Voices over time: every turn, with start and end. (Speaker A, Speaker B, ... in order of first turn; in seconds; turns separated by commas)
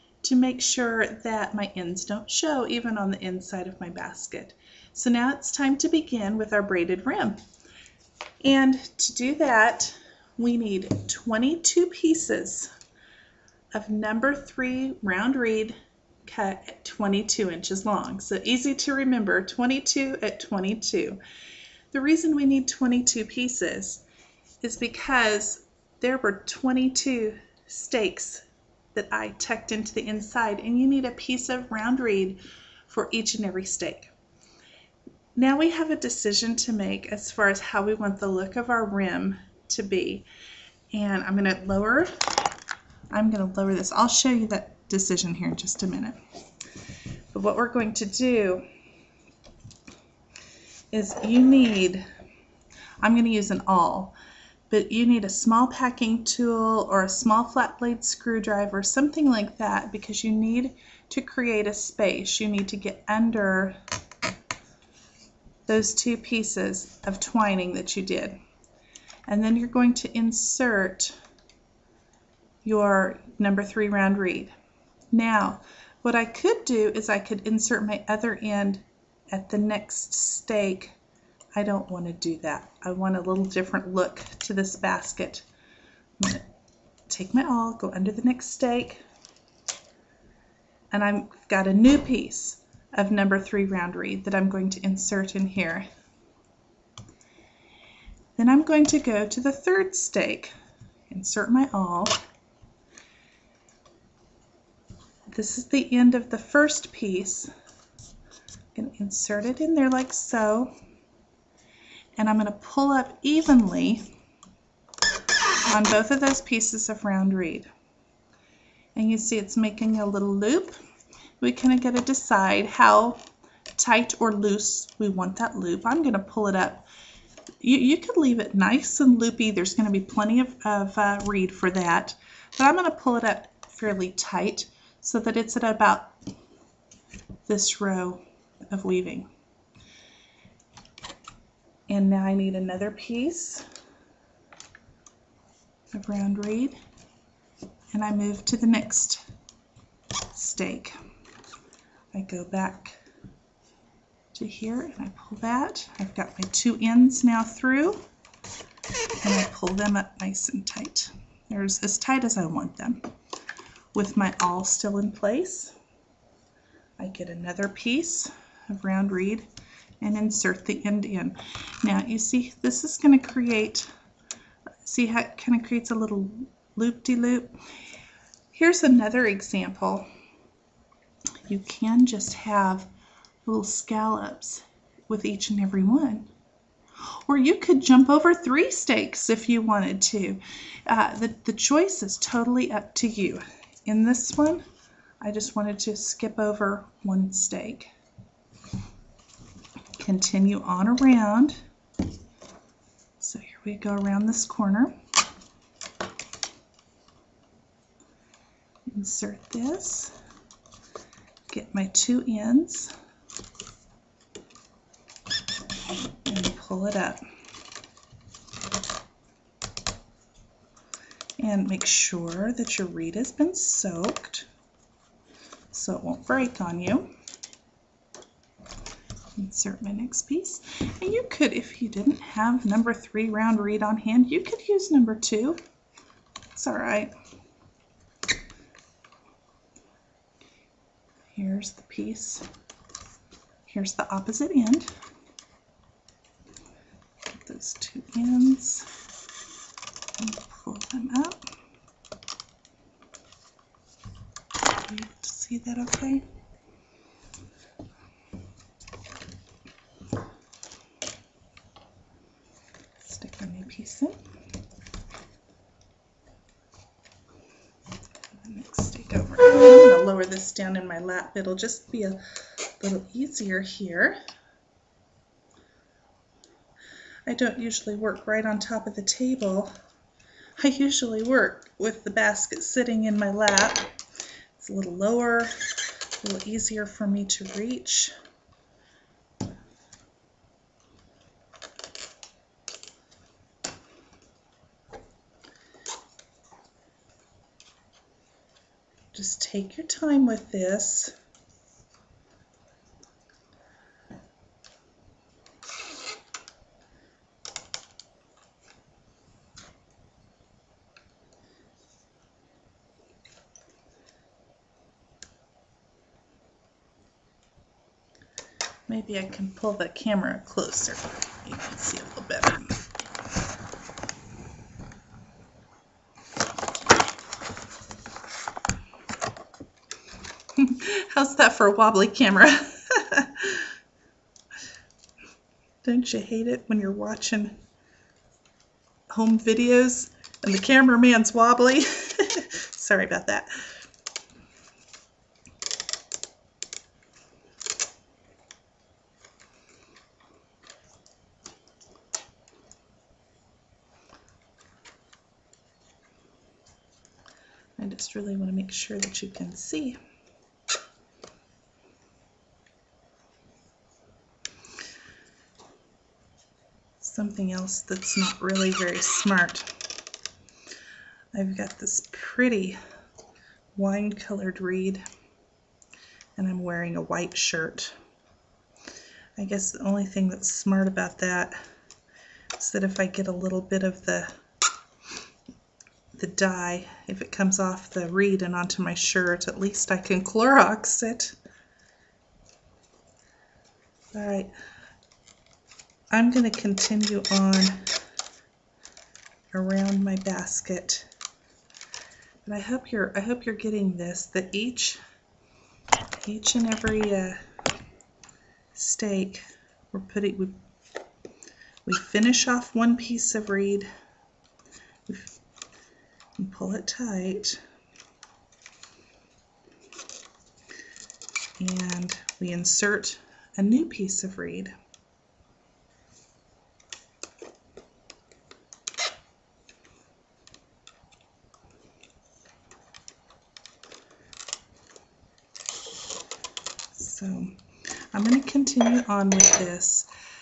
Speaker A: 0.2-7.4, Speaker A: 8.4-12.7, Speaker A: 13.8-21.2, Speaker A: 21.9-24.0, Speaker A: 24.6-28.4, Speaker A: 28.9-34.1, Speaker A: 35.4-40.3, Speaker A: 40.9-42.1, Speaker A: 43.1-46.2, Speaker A: 47.3-48.6, Speaker A: 50.9-52.0, Speaker A: 53.0-54.1, Speaker A: 54.7-63.8, Speaker A: 65.7-68.4, Speaker A: 69.3-71.2, Speaker A: 72.6-74.5, Speaker A: 75.1-81.0, Speaker A: 81.6-85.5, Speaker A: 86.2-86.5, Speaker A: 87.1-89.0, Speaker A: 90.9-95.9, Speaker A: 98.4-100.5, Speaker A: 101.1-102.2, Speaker A: 105.3-107.5, Speaker A: 108.8-110.7, Speaker A: 112.2-114.0, Speaker A: 115.7-117.7, Speaker A: 119.0-120.8, Speaker A: 121.4-123.2, Speaker A: 123.8-126.9, Speaker A: 127.6-136.1, Speaker A: 137.5-139.3, Speaker A: 141.9-143.6, Speaker A: 145.9-146.8, Speaker A: 147.9-149.2, Speaker A: 150.3-151.0, Speaker A: 152.1-153.0, Speaker A: 154.3-158.0, Speaker A: 159.2-163.0, Speaker A: 163.9-165.7, Speaker A: 167.0-169.5, Speaker A: 170.0-173.9, Speaker A: 174.8-177.5, Speaker A: 178.5-180.1, Speaker A: 181.5-182.9, Speaker A: 183.4-186.3, Speaker A: 187.3-194.6, Speaker A: 195.2-197.9, Speaker A: 200.0-201.6, Speaker A: 203.2-204.9, Speaker A: 208.9-210.1, Speaker A: 211.5-212.9, Speaker A: 216.2-217.2, Speaker A: 221.4-224.5, Speaker A: 225.7-227.1, Speaker A: 229.4-235.6, Speaker A: 236.6-237.1, Speaker A: 241.3-242.4, Speaker A: 243.7-244.9, Speaker A: 247.3-248.9, Speaker A: 250.2-251.4, Speaker A: 254.9-256.2, Speaker A: 263.0-264.2, Speaker A: 268.4-272.2, Speaker A: 272.8-274.2, Speaker A: 277.3-279.7, Speaker A: 280.6-283.9, Speaker A: 284.6-285.7, Speaker A: 286.2-288.1, Speaker A: 299.1-301.1, Speaker A: 318.9-322.7, Speaker A: 330.6-333.7, Speaker A: 335.8-337.6, Speaker A: 339.1-343.6, Speaker A: 357.8-360.0, Speaker A: 367.0-369.7, Speaker A: 371.3-372.8, Speaker A: 373.8-375.0, Speaker A: 376.4-377.9, Speaker A: 379.4-381.6, Speaker A: 382.6-384.3, Speaker A: 386.2-391.4, Speaker A: 394.1-394.5, Speaker A: 396.1-397.8, Speaker A: 399.5-401.1, Speaker A: 402.4-405.0, Speaker A: 406.2-407.4, Speaker A: 408.8-410.6, Speaker A: 411.9-413.9, Speaker A: 415.1-415.4, Speaker A: 416.4-417.6, Speaker A: 421.6-424.7, Speaker A: 436.9-437.5, Speaker A: 438.1-440.1